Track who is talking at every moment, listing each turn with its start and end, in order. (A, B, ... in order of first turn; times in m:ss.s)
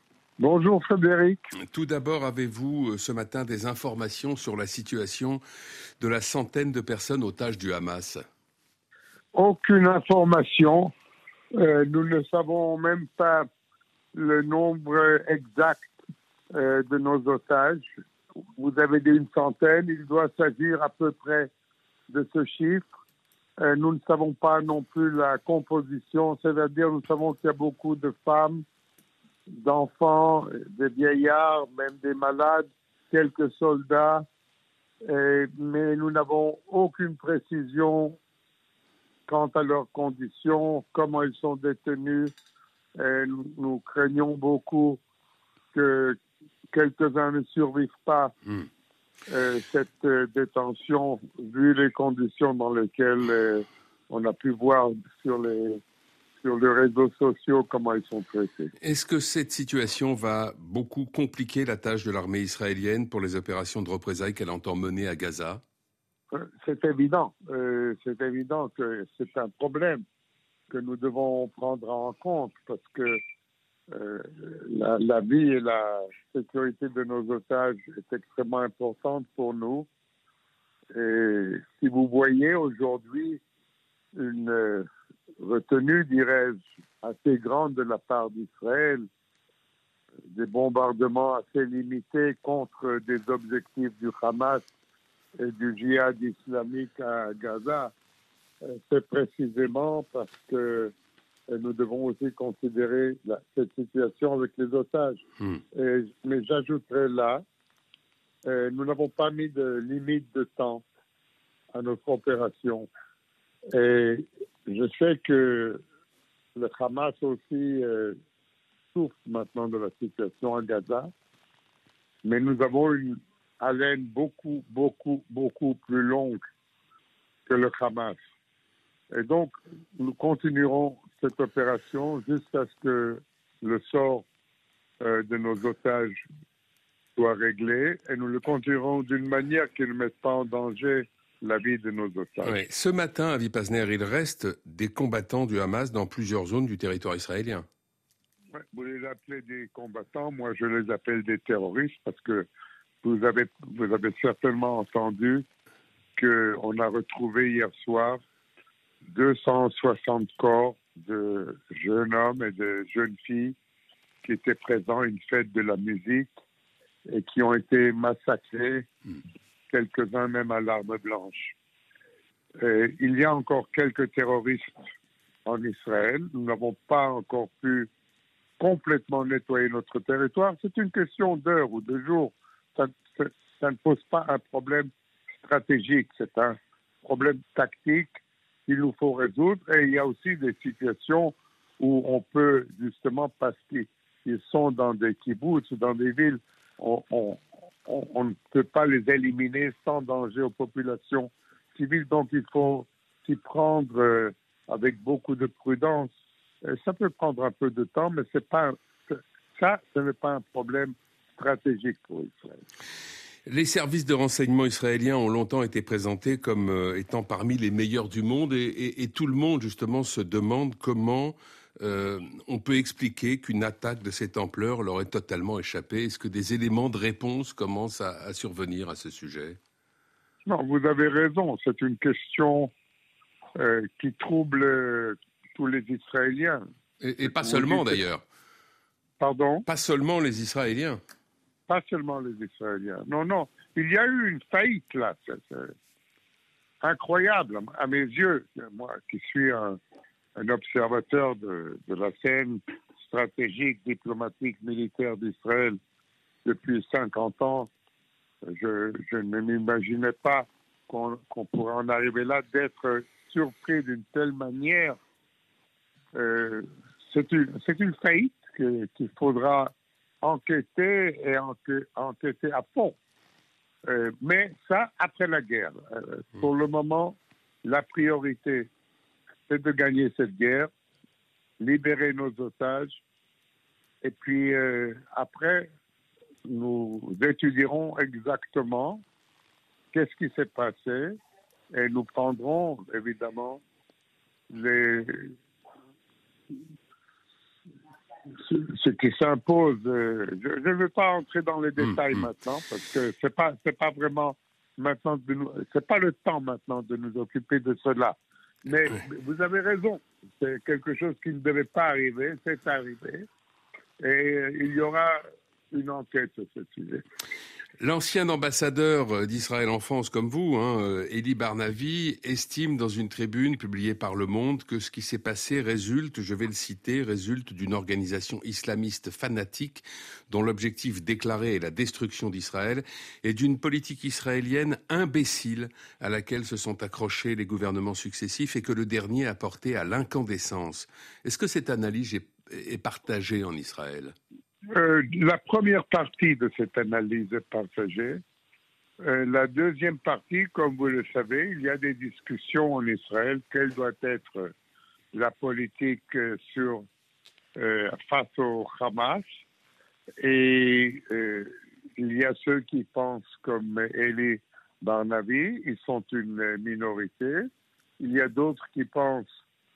0:00.4-0:01.5 A
0:01.6-0:05.4 B
0:06.0-0:08.2 B
0:09.3-0:10.9 A
0:11.6-0:13.5 A
0:14.1-0:15.9 A
0:16.5-0:17.9 A
0:18.6-0:21.5 A
0:22.1-0:22.9 A
0:23.6-0:28.6 A
0:29.6-0:34.2 A
0:35.0-0:38.2 A
0:39.3-0:42.3 A
0:43.0-0:45.0 A
0:45.7-0:46.2 A
0:46.7-0:48.4 A
0:49.3-0:55.8 A
0:56.4-0:58.7 A
0:58.8-1:05.6 B
1:06.3-1:10.0 A
1:10.7-1:13.2 A
1:13.9-1:19.9 A
1:20.9-1:23.4 A
1:24.2-1:24.8 A
1:25.4-1:29.1 A
1:30.3-1:34.6 A
1:35.4-1:37.9 A
1:38.6-1:40.9 A
1:41.5-1:45.2 A
1:45.7-1:47.4 A
1:48.4-1:50.8 A
1:51.7-1:52.9 A
1:53.7-1:55.8 A
1:56.6-1:58.2 A
1:58.9-2:01.1 A
2:02.2-2:06.4 A
2:07.5-2:08.2 A
2:09.1-2:14.2 A
2:15.0-2:16.2 A
2:17.2-2:22.6 A
2:22.4-2:27.6 B
2:28.5-2:32.5 A
2:33.0-2:35.4 A
2:36.2-2:38.2 A
2:39.1-2:43.6 A
2:44.2-2:46.3 A
2:47.1-2:48.9 A
2:49.7-2:51.5 A
2:52.6-2:54.8 A
2:55.4-2:57.9 A
2:58.6-3:04.9 A
3:05.4-3:08.2 A
3:08.7-3:26.1 A
3:26.6-3:32.6 A
3:33.4-3:49.6 B
3:50.4-3:52.7 A
3:53.6-3:56.6 A
3:57.0-3:58.2 B
3:57.2-3:58.0 A
3:59.2-3:59.6 A
3:59.6-4:01.0 B
4:01.7-4:05.7 A
4:06.8-4:09.8 A
4:10.4-4:15.8 A
4:16.4-4:17.7 A
4:18.4-4:25.0 A
4:26.1-4:33.0 A
4:33.8-4:38.7 A
4:39.5-4:40.7 A
4:41.6-4:43.0 A
4:44.0-4:45.7 A
4:46.4-4:49.0 A
4:49.9-4:51.2 A
4:51.7-4:53.6 A
4:54.5-4:55.3 A
4:58.4-5:13.2 A
5:14.0-5:15.2 A
5:15.7-5:17.0 A
5:17.8-5:44.1 B
5:44.7-5:48.2 A
5:49.0-5:54.5 A
5:55.1-5:56.9 A
5:57.6-5:59.2 A
6:00.2-6:07.5 A
6:08.0-6:09.2 A